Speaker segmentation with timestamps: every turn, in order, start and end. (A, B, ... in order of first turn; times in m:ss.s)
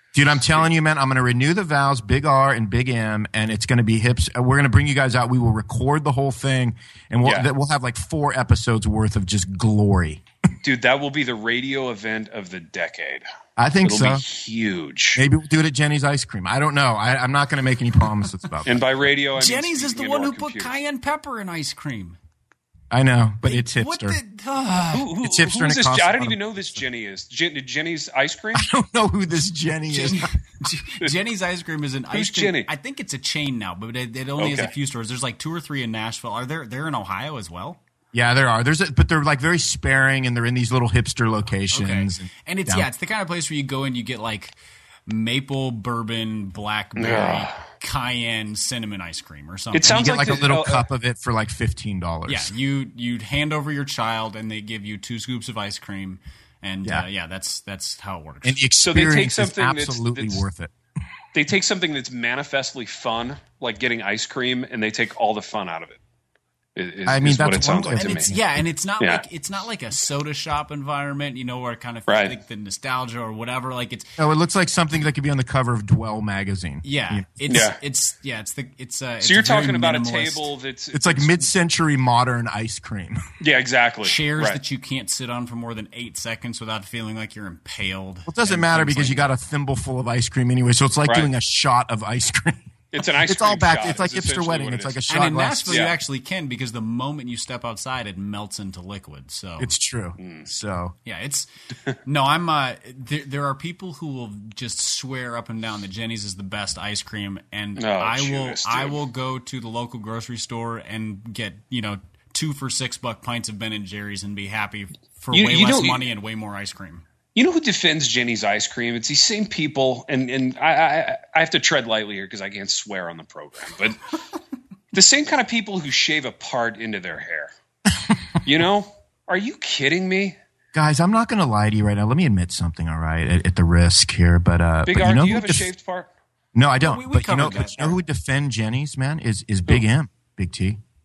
0:00.1-0:10.2 A
0:07.2-0:07.5 B
0:10.6-0:13.2 B
0:13.6-0:14.2 A
0:13.8-0:15.2 B
0:15.1-0:18.8 A
0:18.6-0:20.8 B
0:19.4-0:22.2 C
0:22.9-0:24.2 A
0:23.4-0:25.1 C
0:24.9-0:28.7 B
0:25.2-0:26.4 A
0:28.6-0:30.3 A
0:29.9-0:37.8 C
0:32.1-0:32.7 B
0:34.4-0:34.7 B
0:38.1-0:42.9 A
0:41.7-0:44.6 C
0:45.1-0:50.1 C
0:47.0-0:47.6 B
0:49.7-0:50.9 B
0:49.9-0:52.5 A
0:52.3-0:58.6 C
0:58.4-1:00.7 A
0:58.8-1:00.4 B
1:01.3-1:06.0 B
1:06.8-1:08.3 B
1:07.1-1:08.5 A
1:07.9-1:14.1 C
1:12.1-1:12.4 B
1:14.2-1:17.3 A
1:16.8-1:20.5 C
1:17.5-1:17.8 B
1:19.2-1:21.5 B
1:20.9-1:23.2 A
1:23.4-1:24.6 B
1:24.0-1:29.3 C
1:28.3-1:35.8 A
1:31.1-1:31.3 B
1:32.9-1:35.0 B
1:35.1-1:39.7 C
1:35.7-1:36.0 B
1:39.6-1:41.0 A
1:40.2-1:40.5 B
1:41.1-1:41.5 C
1:42.0-1:57.0 C
1:47.8-1:49.0 B
1:55.3-1:56.0 B
1:57.4-2:04.1 B
2:04.9-2:07.5 B
2:08.0-2:08.3 A
2:08.4-2:10.4 B
2:10.7-2:15.7 A
2:14.9-2:16.1 B
2:16.5-2:20.8 A
2:16.8-2:18.0 C